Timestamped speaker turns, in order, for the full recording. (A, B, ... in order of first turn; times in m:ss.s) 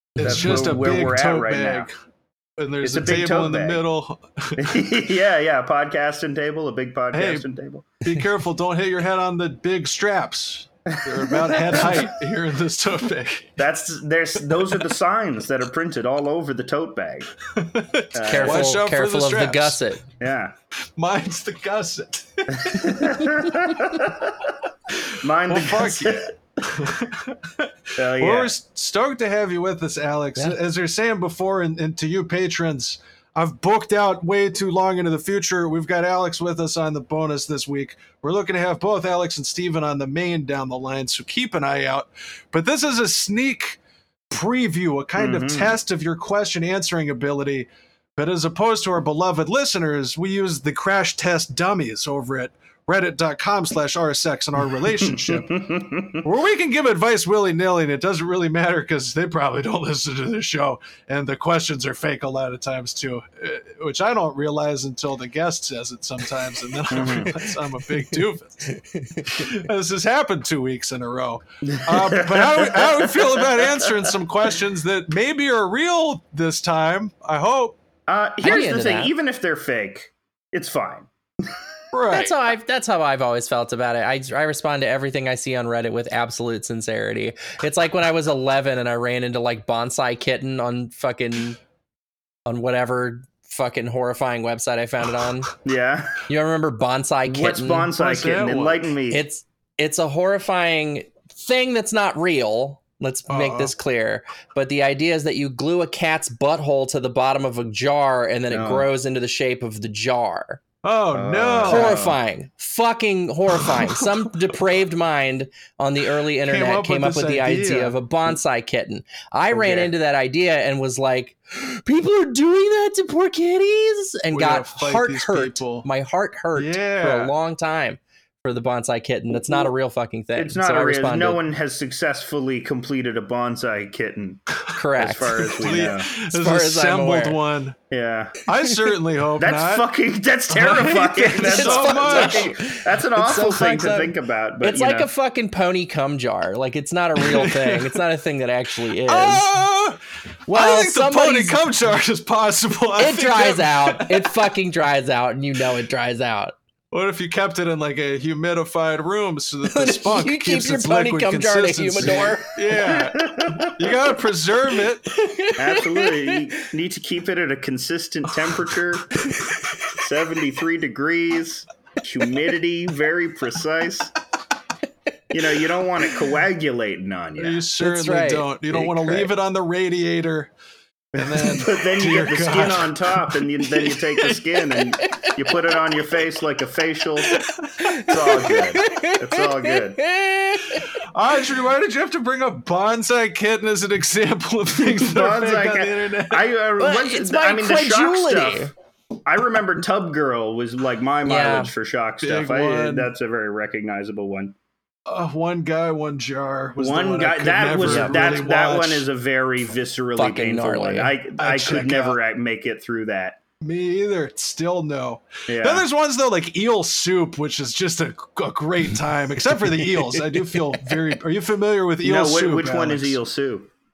0:00.2-0:01.9 A
0:00.2-0:01.9 B
0:02.6-0:04.8 A
0:02.8-0:03.8 B
0:04.6-0:07.8 B
0:07.1-0:07.5 A
0:08.0-0:13.5 A
0:11.1-0:12.0 B
0:13.6-0:17.3 B
0:17.5-0:19.8 A
0:18.1-0:18.8 B
0:18.2-0:20.0 C
0:20.2-0:20.5 B
0:21.0-0:23.3 A
0:22.5-0:24.5 B
0:25.1-0:26.3 B
0:25.5-0:55.6 A
0:28.0-0:28.5 B
0:45.2-0:45.8 B
0:54.9-0:56.2 B
0:56.2-1:08.7 A
1:06.9-1:07.3 B
1:07.1-1:09.4 C
1:09.2-1:17.8 A
1:11.8-1:14.1 B
1:18.1-1:21.6 B
1:18.4-1:19.1 C
1:21.9-1:22.3 A
1:22.1-1:31.6 C
1:32.4-1:35.5 C
1:35.6-1:36.2 B
1:36.3-1:37.9 C
1:37.2-1:39.2 B
1:38.0-1:38.9 A
1:39.1-1:50.6 C
1:43.3-1:43.7 A
1:48.5-1:48.9 B
1:50.8-1:52.0 A
1:51.1-1:52.2 B
1:51.7-2:11.4 C
1:53.6-1:54.3 A
1:56.4-1:58.0 A
1:59.5-1:59.9 A
2:04.3-2:05.9 A
2:06.6-2:07.3 A
2:10.4-2:14.4 B
2:14.7-2:17.4 C
2:15.0-2:16.1 B
2:15.4-2:17.8 A
2:17.9-2:18.4 B
2:18.5-2:19.9 A
2:19.4-2:25.1 B
2:20.5-2:22.5 A
2:21.4-2:29.5 C
2:27.2-2:28.0 A
2:28.8-2:34.4 A
2:30.5-2:31.6 C
2:33.0-2:36.5 C
2:36.9-2:45.1 A
2:39.6-2:42.5 C
2:42.7-2:43.7 B
2:45.2-2:46.4 C
2:45.6-2:49.2 B
2:48.2-2:49.4 A
2:49.4-2:49.8 C
2:49.9-2:54.2 B
2:55.3-2:57.6 B
2:57.4-3:00.5 A
2:57.8-2:59.3 C
3:01.1-3:07.4 B
3:01.2-3:04.0 A
3:07.3-3:08.2 A
3:07.8-3:10.9 C
3:08.0-3:10.0 B
3:11.1-3:16.5 A
3:14.8-3:18.7 B
3:16.8-3:18.7 C
3:19.2-3:24.5 B
3:21.2-3:21.7 C
3:22.2-3:23.1 A
3:25.1-3:29.0 A
3:26.8-3:33.4 B
3:30.2-3:31.1 C
3:31.4-3:32.2 A
3:33.6-3:43.2 A
3:35.5-3:35.8 B
3:39.8-3:40.9 C
3:42.0-3:43.7 B